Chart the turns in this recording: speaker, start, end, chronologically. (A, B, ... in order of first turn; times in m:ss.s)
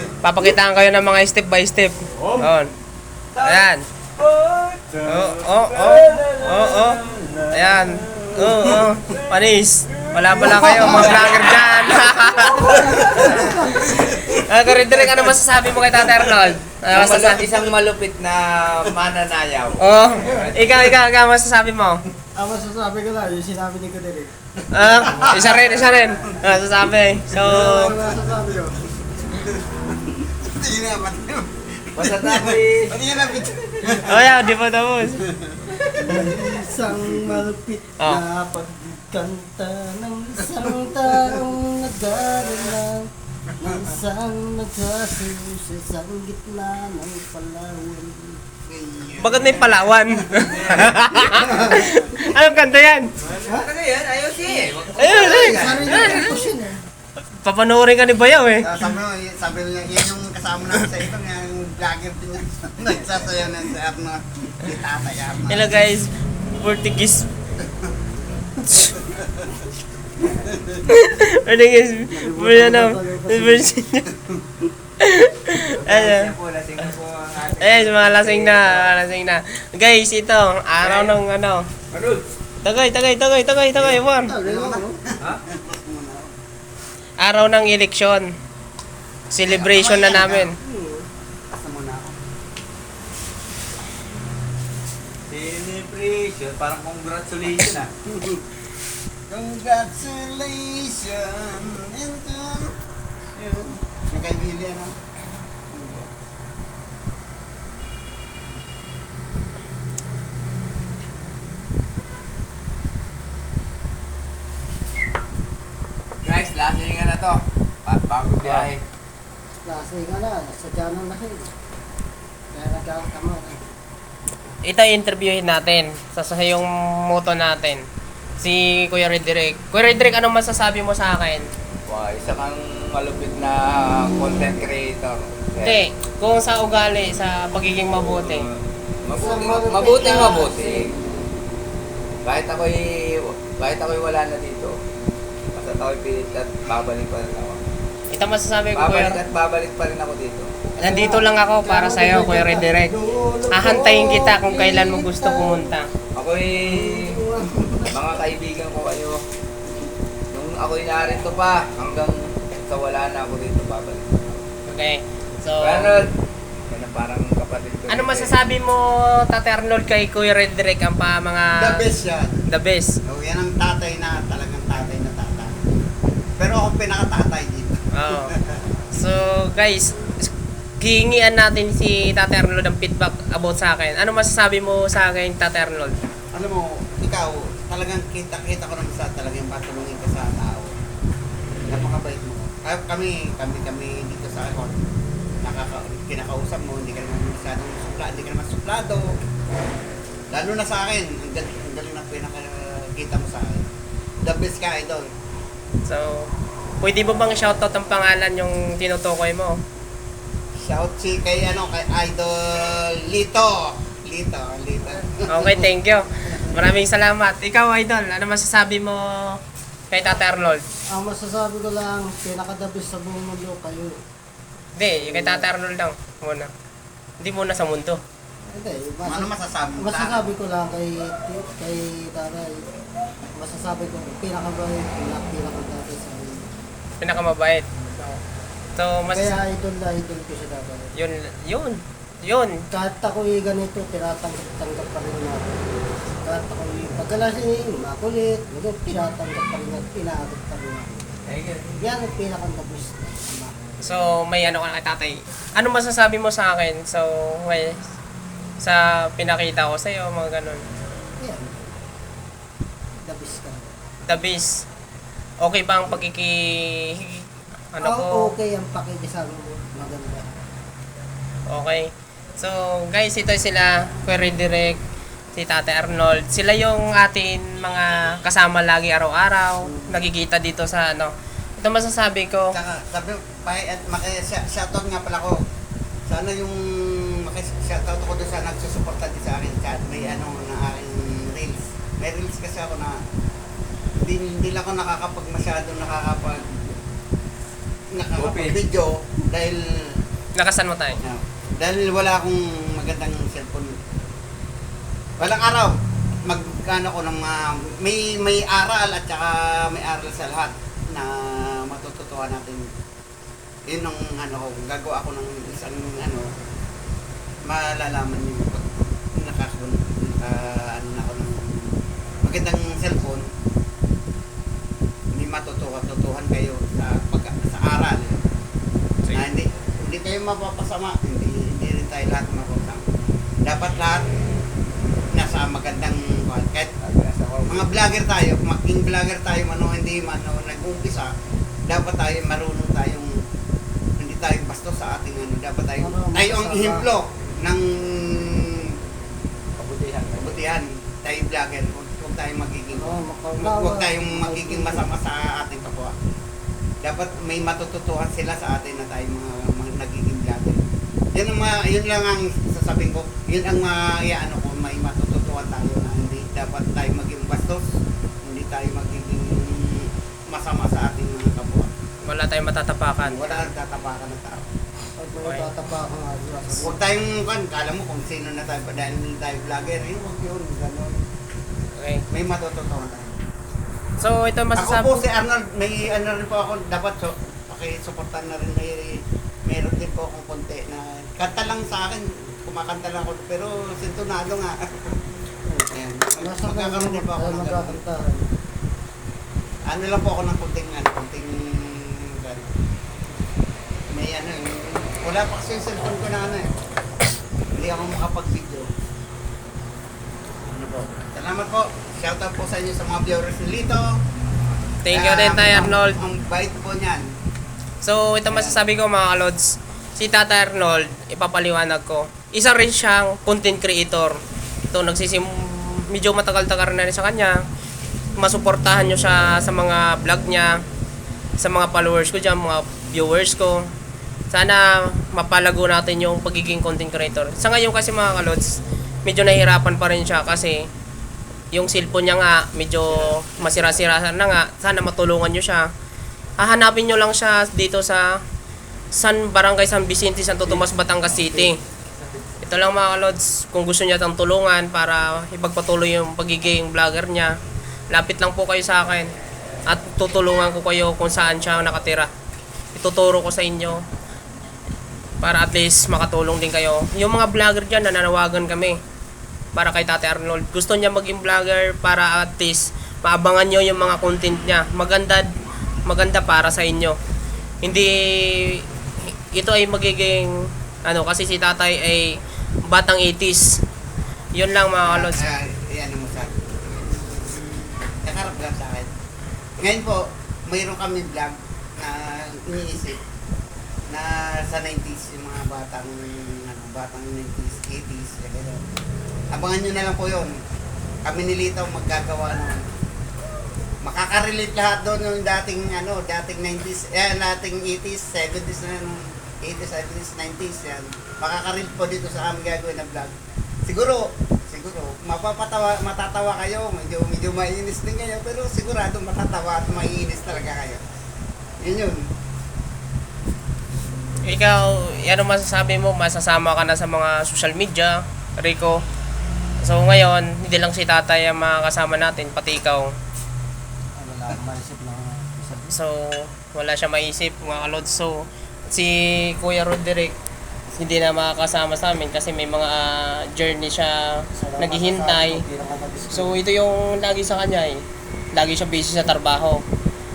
0:00.2-0:02.7 A
0:03.4-0:03.6 B
0:03.4-0:03.8 A
0:04.2-0:09.2 B
0:05.0-0:17.5 A
0:10.1-0:14.2 B
0:12.7-0:13.8 C
0:16.9-0:20.9 B
0:19.8-0:22.0 A
0:22.3-0:24.3 C
0:24.7-0:28.0 A
0:25.1-0:25.6 D
0:27.3-0:28.8 C
0:27.4-0:28.3 D
0:29.4-0:34.4 D
0:32.0-0:34.0 B
0:34.0-0:35.2 A
0:36.0-0:37.4 D
0:36.0-0:43.1 C
0:40.8-0:41.2 D
0:43.6-0:48.4 C
0:48.7-0:51.8 D
0:49.2-0:53.1 A
0:50.5-0:50.9 B
0:51.3-0:52.0 C
0:53.2-0:56.2 B
0:55.0-0:56.3 A
0:55.0-0:56.8 C
0:57.4-0:58.7 A
0:58.6-1:05.7 D
1:05.5-1:07.2 A
1:09.0-1:09.4 D
1:10.4-1:10.7 D
1:10.9-1:14.0 A
1:12.1-1:13.7 C
1:15.0-1:16.3 A
1:15.8-1:19.0 B
1:17.6-1:21.6 A
1:20.8-1:21.2 B
1:21.9-1:22.2 B
1:22.6-1:24.3 A
1:23.8-1:24.9 D
1:24.2-1:25.0 C
1:25.5-1:26.3 D
1:27.2-1:28.3 A
1:29.3-1:30.5 A
1:29.5-1:30.5 D
1:30.6-1:31.0 C
1:31.5-1:32.1 D
1:35.3-1:37.9 B
1:38.0-1:38.4 D
1:39.3-1:42.7 D
1:43.3-1:44.9 D
1:45.7-1:46.0 D
1:56.2-1:58.8 B
1:59.6-2:01.5 C
2:02.5-2:03.6 C
2:04.6-2:07.8 A
2:08.4-2:11.4 A
2:11.9-2:15.8 B
2:15.6-2:18.5 A
2:17.9-2:20.9 B
2:19.1-2:21.1 C
2:22.2-2:24.8 B
2:25.5-2:27.6 B
2:28.1-2:29.2 A
2:28.8-2:30.5 B
2:30.8-2:32.9 A
2:30.8-2:35.7 C
2:33.5-2:35.9 A
2:36.2-2:37.2 B
2:36.6-2:38.0 C
2:37.9-2:39.2 B
2:40.3-2:44.4 B
2:44.7-2:46.0 A
2:45.6-2:46.1 B
2:46.7-2:48.3 B
2:47.9-2:51.8 A
2:51.6-2:52.4 D
2:52.5-2:53.0 A
2:53.1-2:55.6 D
2:56.4-2:58.6 D
2:57.9-2:58.3 A
2:58.9-3:00.3 A
3:00.8-3:05.9 A
3:06.3-3:10.7 D
3:11.7-3:14.8 D
3:15.4-3:19.0 D
3:20.3-3:23.6 D
3:24.2-3:25.1 D
3:25.9-3:26.3 A
3:26.8-3:29.6 A
3:30.6-3:35.7 D
3:35.3-3:39.4 A
3:36.3-3:36.6 C
3:39.9-3:40.6 A
3:40.9-3:44.0 C
3:44.8-3:46.5 A
3:45.0-3:45.5 C
3:47.2-3:48.0 A
3:48.5-3:52.6 C
3:49.0-3:50.4 D
3:53.4-3:56.5 C
3:57.0-3:57.6 A
3:57.9-3:58.2 C
3:58.8-3:59.4 A
3:59.1-4:00.9 C
4:01.0-4:02.6 A
4:02.7-4:05.6 C
4:06.2-4:11.1 C
4:11.3-4:11.8 B
4:11.8-4:13.5 C
4:13.8-4:17.8 A
4:18.6-4:20.6 A
4:21.2-4:21.6 C
4:23.0-4:23.7 C
4:24.0-4:24.6 A
4:25.4-4:28.3 A
4:27.8-4:30.3 C
4:31.5-4:34.8 A
4:35.3-4:42.5 A
4:39.6-4:40.0 C
4:42.5-4:45.4 D
4:46.1-4:53.0 D
4:54.0-4:56.6 D
4:57.9-5:00.0 D
4:58.2-4:58.6 B
5:00.4-5:01.0 A
5:01.0-5:03.7 D
5:05.2-5:05.7 D
5:06.3-5:12.6 D
5:13.7-5:16.3 D
5:17.5-5:23.2 D
5:25.1-5:28.3 D
5:29.1-5:32.8 D
5:33.4-5:34.1 D
5:35.1-5:36.7 D
5:36.8-5:37.7 B
5:37.4-5:41.1 D
5:41.7-5:43.1 D
5:44.0-5:48.7 D
5:45.8-5:46.9 C
5:49.6-5:50.4 B
5:50.1-5:55.9 D
5:52.8-5:54.9 C
5:56.8-6:00.6 D
6:01.1-6:07.6 D
6:08.2-6:11.7 D
6:12.0-6:13.5 A
6:13.0-6:14.4 D
6:15.0-6:16.7 C
6:16.5-6:21.0 D
6:21.7-6:22.0 A
6:22.1-6:23.2 D
6:24.0-6:25.0 A
6:24.6-6:35.0 D
6:35.5-6:38.3 C
6:35.7-6:37.8 D
6:39.7-6:42.5 D
6:43.9-6:46.5 D
6:47.6-6:48.7 D
6:50.5-6:53.8 D
6:54.8-6:56.0 A
6:54.9-6:57.0 D
6:57.8-7:04.2 A
6:58.3-6:58.6 D
7:04.7-7:07.4 A
7:08.2-7:10.6 A
7:11.4-7:13.7 A
7:14.3-7:20.7 A
7:21.5-7:25.7 A
7:22.9-7:23.9 D
7:26.4-7:28.2 A
7:28.9-7:31.6 A
7:32.4-7:37.3 A
7:37.9-7:39.1 A
7:39.7-7:42.1 A
7:42.7-7:43.8 A
7:45.2-7:48.8 A
7:49.5-7:55.3 A
7:55.9-7:57.0 A
7:57.6-8:00.3 A
8:00.8-8:03.6 A
8:04.3-8:05.3 A
8:04.8-8:07.2 D
8:08.0-8:08.9 D
8:09.6-8:13.0 D
8:13.9-8:18.7 D
8:19.3-8:20.3 D
8:21.1-8:22.6 D
8:23.8-8:33.2 D
8:33.7-8:40.8 D
8:41.6-8:42.0 D
8:44.2-8:48.8 A
8:49.6-8:52.9 A
8:54.0-8:55.7 C
8:55.7-9:00.1 A
9:00.8-9:04.0 A
9:04.4-9:06.4 C
9:04.6-9:05.4 A
9:06.1-9:07.8 A
9:08.3-9:09.6 A